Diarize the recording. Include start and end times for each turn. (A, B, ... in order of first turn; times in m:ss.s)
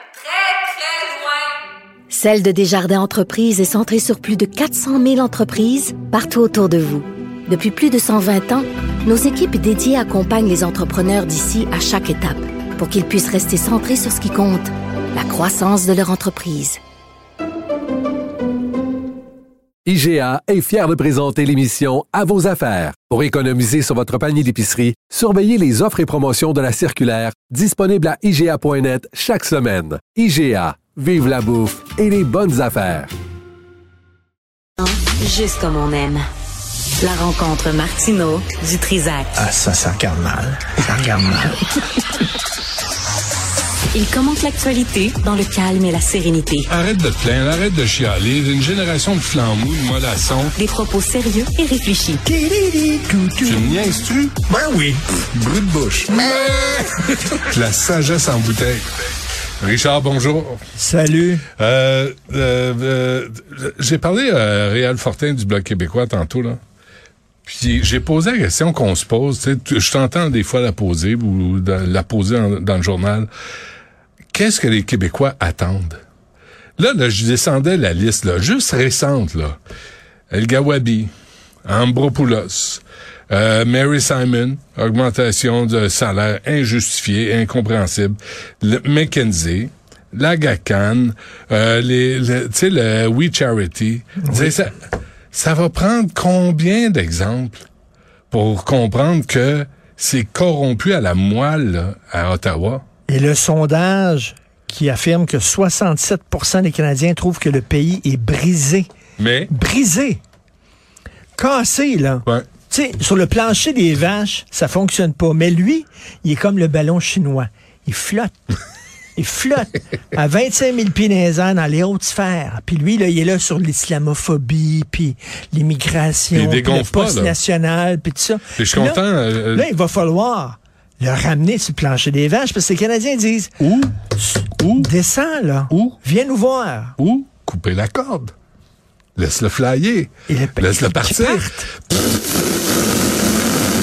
0:00.4-0:01.1 A
0:02.1-0:16.8 A
0:19.9-0:33.1 B
0:34.8-0:36.2 C
0:37.0-0:39.3 C
0:39.4-0:41.6 D
0:43.9-0:46.7 C
0:46.7-0:50.5 E
0:50.6-0:52.2 C
0:52.2-0:54.0 D
0:53.4-0:54.4 E
0:54.5-0:55.0 D
0:55.3-0:58.8 E
0:59.6-1:00.6 E
1:00.8-1:01.5 D
1:01.6-1:06.6 E
1:07.5-1:13.3 E
1:14.3-1:16.0 E
1:16.8-1:19.6 E
1:20.3-1:21.1 E
1:21.7-1:37.6 E
1:34.2-1:34.5 D
1:38.3-1:42.8 E
1:43.1-1:48.9 D
1:49.2-1:49.5 E
1:49.5-1:50.2 D
1:51.4-1:58.4 D
1:59.2-2:13.6 D
2:06.3-2:07.4 E
2:08.6-2:09.7 E
2:13.6-2:14.0 E
2:14.2-2:17.0 D
2:14.6-2:14.9 E
2:15.7-2:16.0 E
2:17.0-2:18.3 E
2:19.2-2:21.5 E
2:20.3-2:21.7 D